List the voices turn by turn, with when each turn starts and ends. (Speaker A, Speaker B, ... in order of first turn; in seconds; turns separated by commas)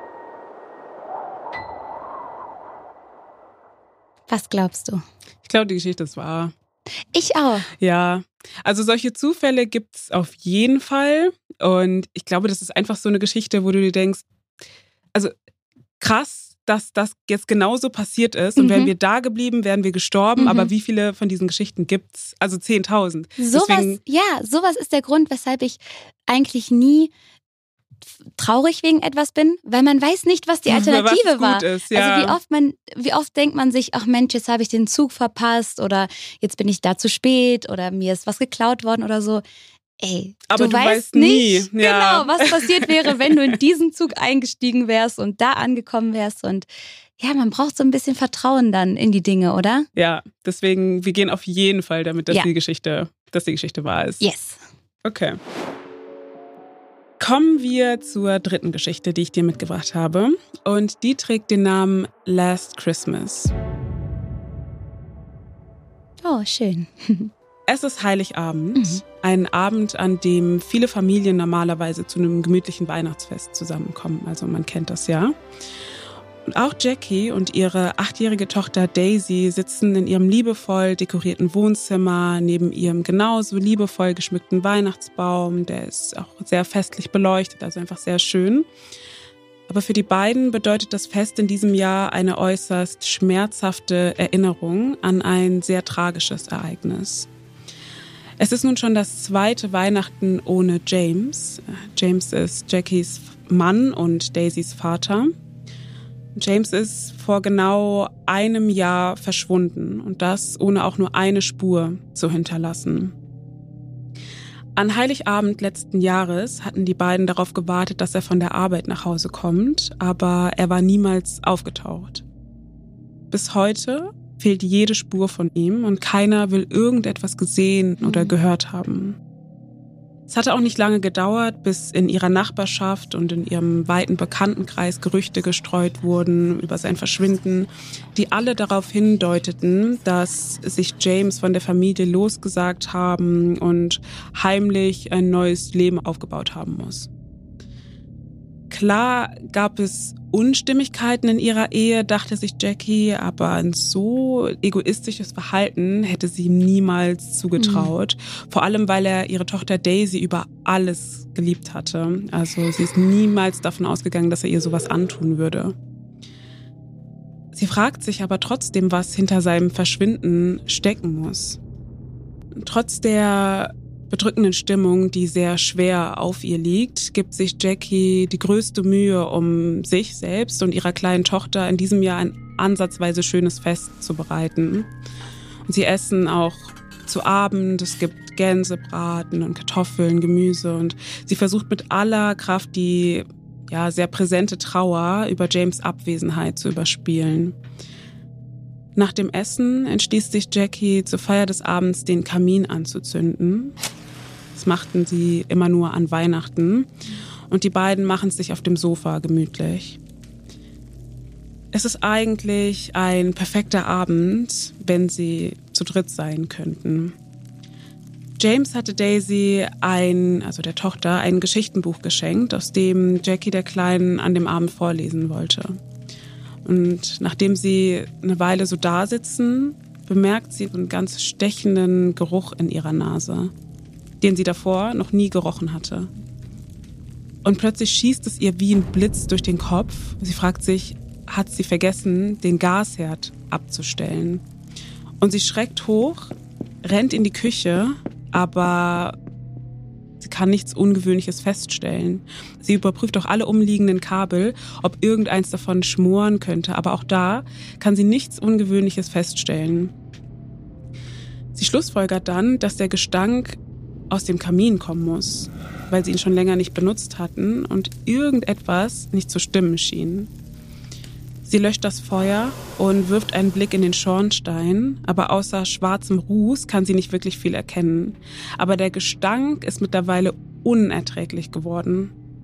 Speaker A: 4.3-5.0, Speaker B: 5.5-6.5, Speaker A: 7.1-7.7, Speaker B: 7.8-14.2, Speaker B: 16.0-24.0, Speaker A: 18.6-18.9, Speaker A: 20.4-20.7, Speaker A: 23.4-27.1, Speaker A: 28.4-39.4, Speaker B: 30.7-32.4, Speaker A: 40.0-46.7, Speaker B: 40.5-43.4, Speaker A: 47.2-49.9, Speaker B: 50.0-54.2, Speaker A: 54.2-54.6, Speaker B: 55.0-55.4, Speaker B: 57.2-63.5, Speaker A: 66.2-67.3, Speaker B: 67.7-75.3, Speaker A: 68.8-69.0, Speaker B: 76.5-88.7, Speaker B: 89.7-97.3, Speaker B: 98.4-105.3, Speaker B: 106.4-113.1, Speaker B: 114.8-122.2, Speaker B: 123.3-129.2, Speaker A: 128.1-128.3, Speaker B: 130.3-147.1, Speaker B: 148.7-165.8, Speaker A: 157.6-157.9, Speaker B: 167.5-171.6, Speaker B: 172.6-184.9, Speaker B: 185.7-197.6, Speaker B: 199.0-203.8, Speaker B: 204.5-206.9, Speaker B: 207.5-210.0, Speaker B: 211.7-217.2, Speaker B: 218.4-225.8, Speaker B: 226.7-233.5, Speaker B: 234.2-236.1, Speaker B: 237.4-244.4, Speaker B: 245.2-249.2, Speaker B: 250.2-259.9, Speaker B: 261.5-263.6, Speaker B: 264.1-270.3, Speaker B: 271.4-282.1